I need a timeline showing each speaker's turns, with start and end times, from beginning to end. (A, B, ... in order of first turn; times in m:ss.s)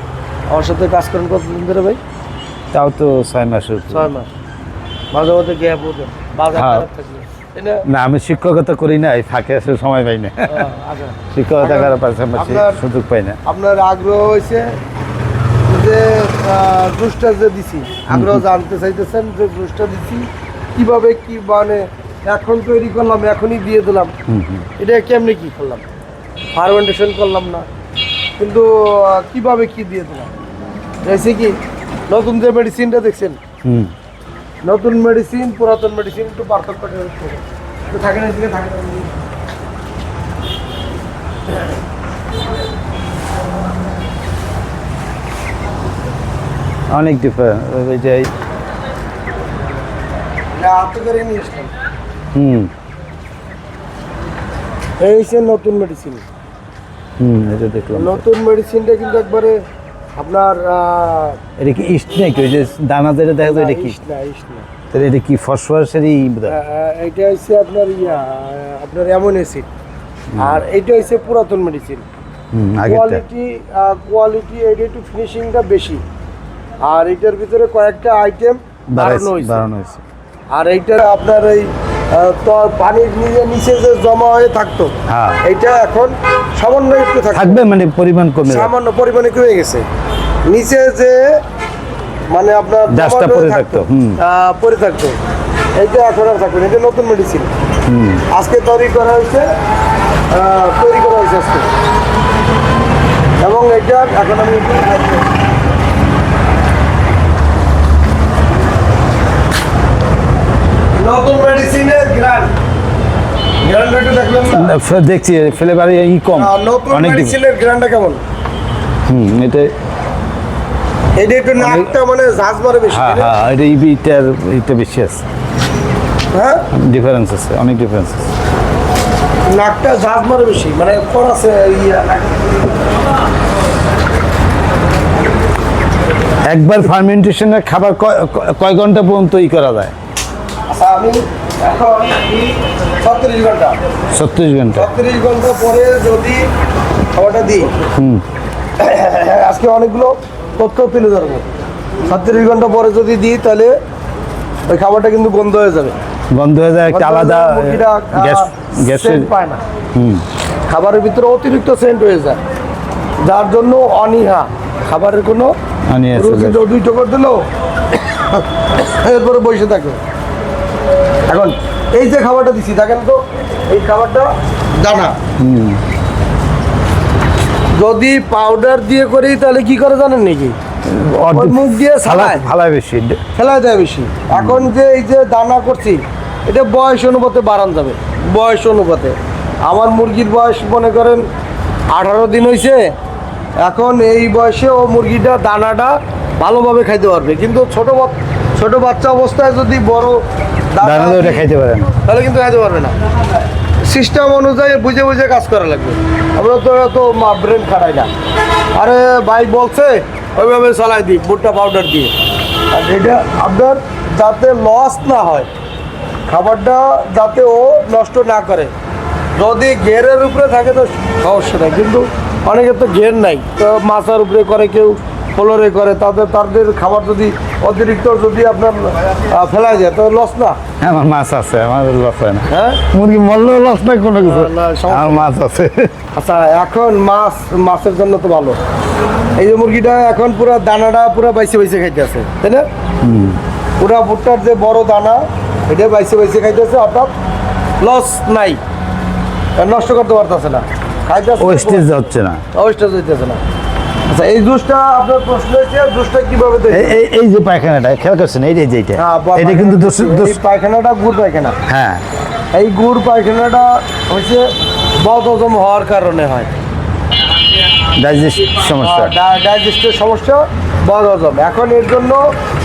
0:00.5-0:02.0 A
0:02.7-0:04.1 B
0:03.9-0:04.3 A
0:05.1-0:07.8 A
0:06.6-0:06.9 B
0:07.9-0:10.7 B
0:10.5-0:12.8 A
0:11.3-0:13.4 B
0:13.4-0:14.8 A
0:15.7-0:24.1 A
0:18.1-0:18.4 B
0:24.3-0:24.7 B
0:24.8-0:25.8 A
0:26.5-0:27.7 A
0:28.4-0:30.3 A
0:31.0-0:31.6 A
0:32.1-0:33.4 A
0:33.6-0:33.9 B
0:34.6-0:39.1 A
0:46.9-0:48.3 B
0:50.5-0:51.7 A
0:52.3-0:52.7 B
0:55.0-0:56.2 A
0:57.2-0:58.2 B
0:58.0-0:59.6 A
1:00.2-1:01.4 A
1:01.6-1:04.0 B
1:03.4-1:04.7 A
1:04.9-1:06.6 B
1:06.5-1:09.7 A
1:10.3-1:10.6 B
1:10.4-1:12.0 A
1:12.5-1:13.2 B
1:12.8-1:16.0 A
1:16.8-1:19.6 A
1:18.9-1:20.0 B
1:20.5-1:27.6 A
1:25.1-1:25.4 B
1:27.3-1:28.7 B
1:28.4-1:29.8 A
1:30.5-1:31.4 A
1:32.3-1:35.2 A
1:32.9-1:34.2 B
1:35.8-1:37.5 A
1:37.9-1:38.2 B
1:38.3-1:39.5 A
1:40.3-1:41.7 A
1:43.4-1:45.3 A
1:51.0-1:52.5 A
1:53.6-1:54.7 A
1:54.5-1:57.4 B
1:56.4-1:58.2 A
1:59.1-1:59.7 B
2:01.2-2:03.3 A
2:01.6-2:01.9 B
2:02.9-2:05.2 B
2:06.3-2:06.7 A
2:06.7-2:08.3 B
2:09.5-2:12.8 A
2:16.4-2:19.9 B
2:20.7-2:23.8 A
2:24.1-2:24.9 B
2:24.7-2:26.5 A
2:27.1-2:27.7 A
2:28.0-2:28.2 B
2:28.8-2:31.5 A
2:32.1-2:33.8 A
2:34.7-2:36.0 A
2:36.3-2:39.3 B
2:36.9-2:39.6 A
2:40.0-2:40.2 B
2:40.7-2:42.4 A
2:43.2-2:45.6 A
2:45.9-2:46.6 B
2:46.2-2:50.0 A
2:51.3-2:55.2 A
2:55.4-2:55.8 B
2:57.8-3:00.6 A
3:00.9-3:03.2 B
3:01.3-3:02.4 A
3:03.4-3:11.2 A
3:04.3-3:04.7 B
3:11.9-3:12.9 A
3:13.6-3:21.5 A
3:20.8-3:21.9 B
3:22.0-3:23.0 A
3:23.8-3:28.1 A
3:28.8-3:32.1 A
3:32.7-3:35.5 A
3:36.3-3:38.7 A
3:39.4-3:50.6 A
3:50.8-3:55.9 B
3:52.5-3:52.8 A
3:54.2-3:55.3 A
3:56.2-3:58.6 A
3:59.4-4:02.7 A
4:03.0-4:03.4 B
4:03.8-4:07.1 A
4:07.8-4:08.6 A
4:09.6-4:11.9 A
4:11.4-4:12.4 B
4:12.5-4:13.4 A
4:14.1-4:17.0 A
4:16.7-4:20.4 B
4:19.0-4:21.6 A
4:21.7-4:22.0 B
4:22.5-4:26.5 A
4:28.0-4:29.1 B
4:28.8-4:32.3 A